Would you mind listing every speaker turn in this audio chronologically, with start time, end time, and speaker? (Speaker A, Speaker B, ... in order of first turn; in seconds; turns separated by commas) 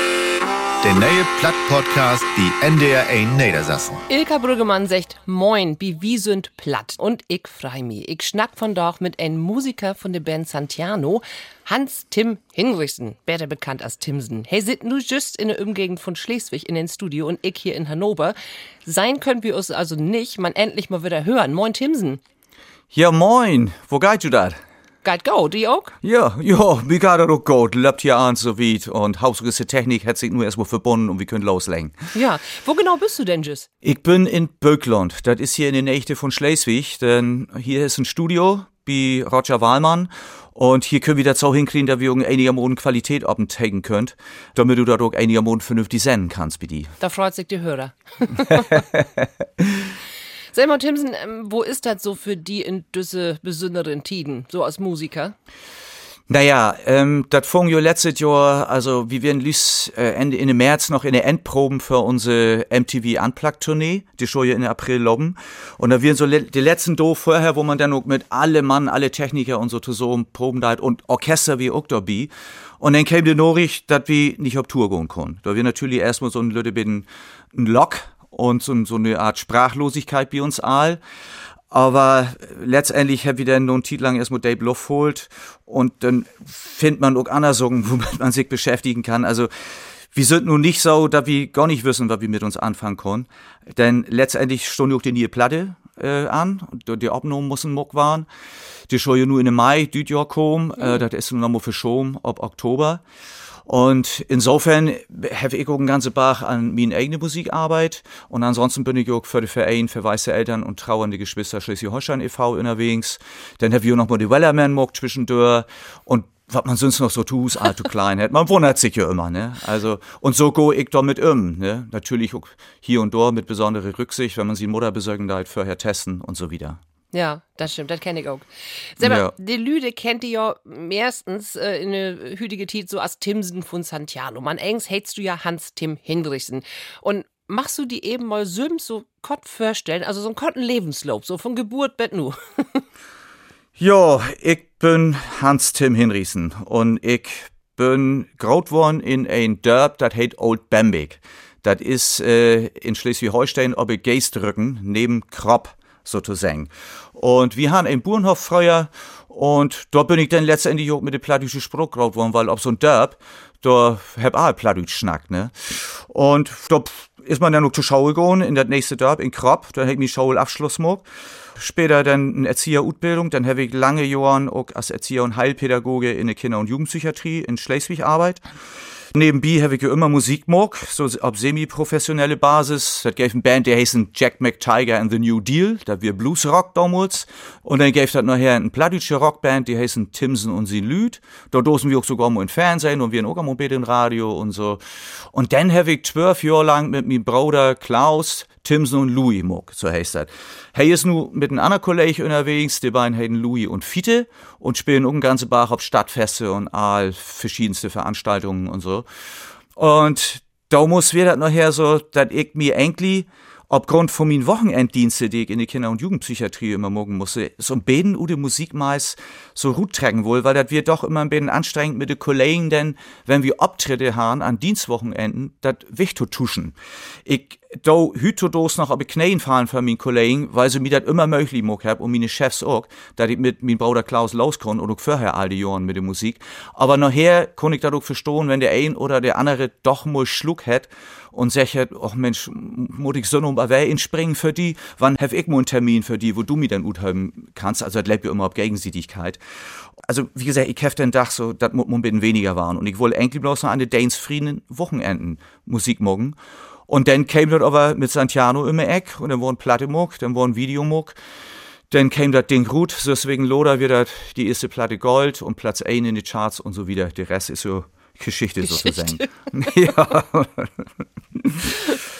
Speaker A: 0.8-4.0, Speaker B: 4.1-22.2, Speaker C: 22.9-24.6, Speaker B: 25.0-25.9, Speaker C: 26.0-32.0, Speaker B: 32.1-33.7, Speaker C: 33.8-46.9, Speaker B: 47.0-48.8, Speaker C: 48.8-49.0, Speaker C: 49.6-49.9, Speaker B: 50.5-55.4, Speaker C: 56.3-81.0, Speaker C: 81.7-98.3, Speaker C: 98.9-103.0, Speaker C: 103.7-126.8, Speaker B: 127.1-128.5, Speaker B: 129.0-142.8, Speaker C: 129.0-129.3, Speaker C: 143.8-178.4, Speaker C: 179.1-209.1, Speaker C: 209.8-249.4, Speaker C: 250.0-261.2, Speaker C: 261.9-272.0, Speaker B: 268.7-269.2